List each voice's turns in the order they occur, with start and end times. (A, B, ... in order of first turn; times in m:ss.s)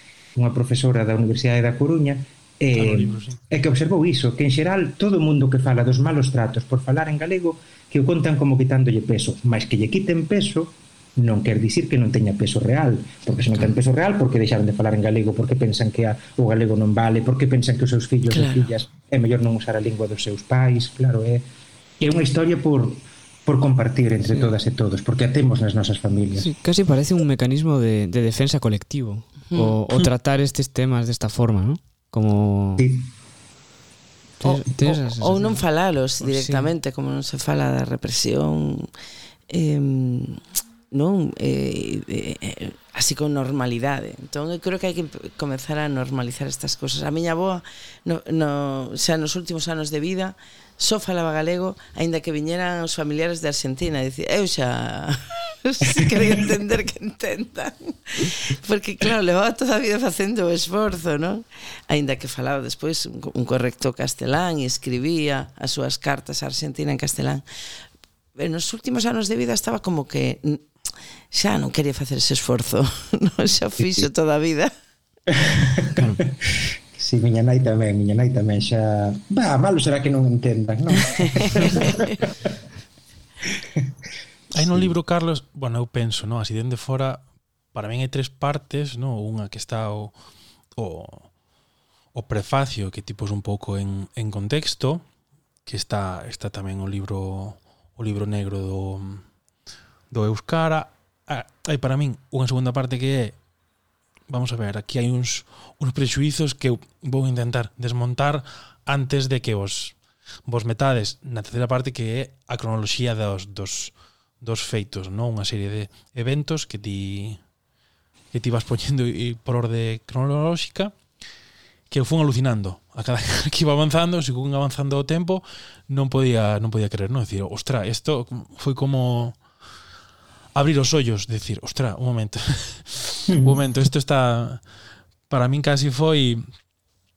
0:00.4-0:21.4 A
0:02.8-0:03.4 B
0:18.3-0:18.7 C
0:22.0-0:26.5 A
0:24.3-0:24.5 D
0:26.4-0:32.9 D
0:32.8-0:33.1 A
0:34.4-0:35.6 D
0:34.4-0:38.9 C
0:36.2-0:36.7 D
0:39.5-1:07.4 C
0:56.0-0:56.4 A
1:08.4-1:10.7 C
1:11.3-1:14.7 C
1:13.8-1:14.1 A
1:15.3-1:22.5 A
1:21.0-1:22.2 C
1:23.5-1:23.9 A
1:24.5-1:27.2 B
1:24.6-1:24.9 A
1:27.7-1:30.1 B
1:30.8-1:31.3 B
1:32.1-1:35.0 B
1:35.7-1:39.2 B
1:40.1-1:43.4 B
1:44.3-1:57.4 B
1:58.3-2:00.9 B
2:01.9-2:09.4 B
2:10.6-2:14.6 B
2:13.3-2:13.6 A
2:15.3-2:16.4 B